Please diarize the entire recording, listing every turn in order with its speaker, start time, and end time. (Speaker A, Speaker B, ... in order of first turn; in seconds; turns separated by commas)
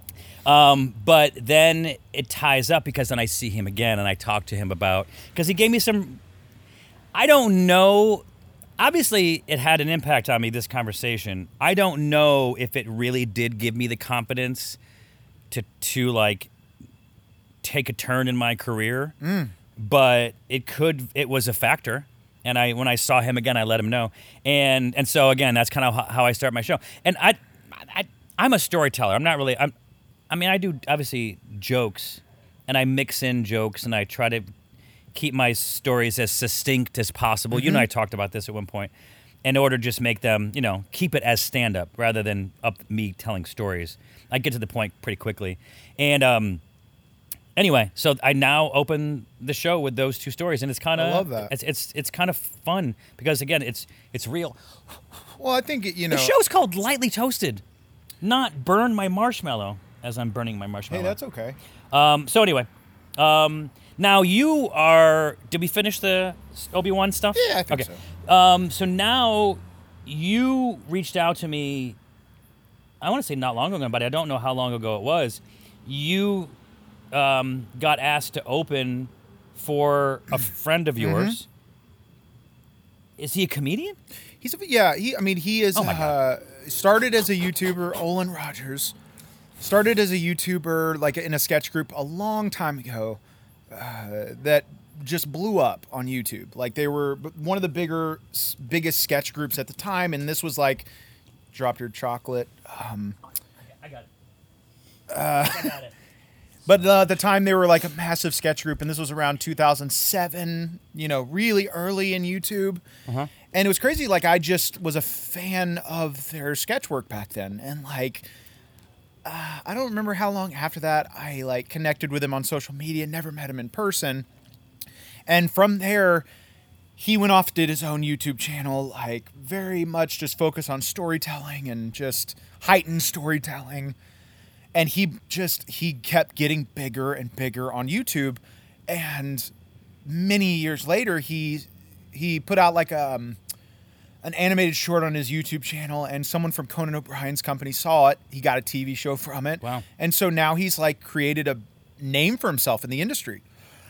Speaker A: 0.4-6.2, Speaker A: 7.1-8.2, Speaker A: 8.8-14.8, Speaker A: 15.5-16.5, Speaker A: 17.6-19.1, Speaker B: 19.2-19.5, Speaker A: 19.8-29.7, Speaker A: 30.3-34.5, Speaker A: 35.1-38.9, Speaker B: 37.5-37.9, Speaker A: 39.4-46.6, Speaker A: 47.5-54.6, Speaker B: 50.9-51.5, Speaker B: 55.4-56.4, Speaker A: 56.1-57.6, Speaker A: 58.2-61.1, Speaker B: 60.9-61.6, Speaker A: 61.9-72.0, Speaker B: 67.3-68.0, Speaker A: 73.0-76.5, Speaker A: 77.1-81.5, Speaker B: 81.0-81.4, Speaker A: 83.2-84.0, Speaker B: 84.4-88.9, Speaker A: 85.7-86.1, Speaker B: 89.6-93.2, Speaker B: 93.7-100.9, Speaker B: 101.5-103.2, Speaker A: 103.8-104.1, Speaker B: 105.1-105.8, Speaker A: 105.4-105.9, Speaker B: 106.7-112.8, Speaker B: 113.5-118.3, Speaker B: 119.2-124.2, Speaker B: 125.3-126.2, Speaker B: 127.0-133.9, Speaker B: 134.7-139.5, Speaker B: 140.0-143.4, Speaker B: 144.2-153.4